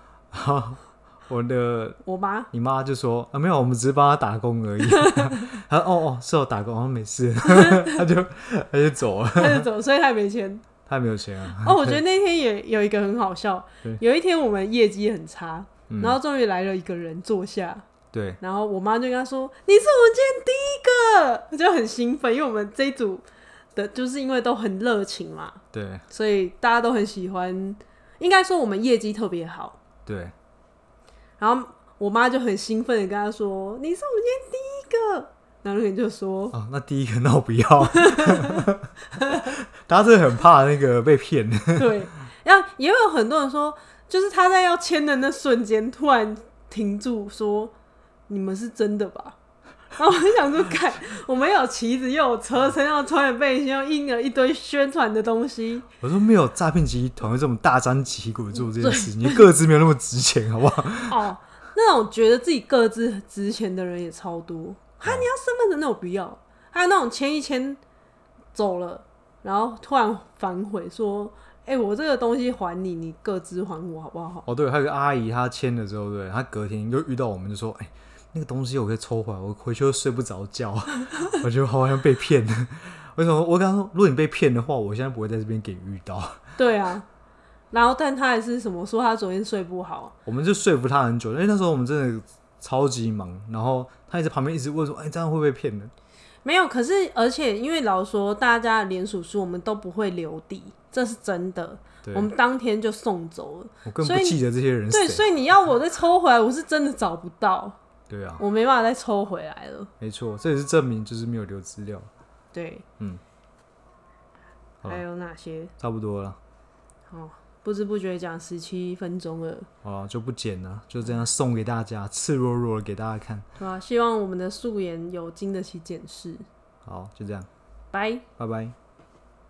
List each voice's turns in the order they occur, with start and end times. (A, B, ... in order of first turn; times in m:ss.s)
0:00.3-0:02.0 A
0:02.0-0:02.5 B
0:02.5-0:09.7 A
0:05.0-0:05.3 B
0:09.4-0:10.6 B
0:10.9-0:12.0 A
0:11.6-0:17.8 B
0:15.9-0:16.2 A
0:18.1-0:18.4 A
0:18.4-0:29.8 B
0:25.7-0:26.0 A
0:30.1-0:30.3 A
0:31.4-0:36.6 B
0:36.5-0:38.9 A
0:37.9-0:39.4 B
0:39.4-0:42.1 A
0:41.8-0:47.7 B
0:48.3-0:49.4 B
0:50.0-0:55.9 B
0:56.0-1:01.2 A
0:58.7-0:59.4 B
1:01.1-1:07.8 B
1:08.5-1:14.5 B
1:14.5-1:26.4 A
1:26.6-1:27.0 B
1:27.7-1:30.1 B
1:30.3-1:35.9 A
1:36.4-1:44.4 B
1:42.0-1:42.3 A
1:43.9-1:45.2 A
1:44.9-1:47.8 B
1:48.1-1:48.4 A
1:48.4-1:49.9 B
1:50.0-1:52.1 A
1:52.5-1:52.8 B
1:54.8-1:55.7 B
1:55.8-1:56.4 A
1:57.1-1:59.7 B
1:59.8-2:03.4 A
2:03.6-2:06.4 B
2:06.8-2:07.5 A
2:07.9-2:08.2 B
2:08.4-2:08.8 A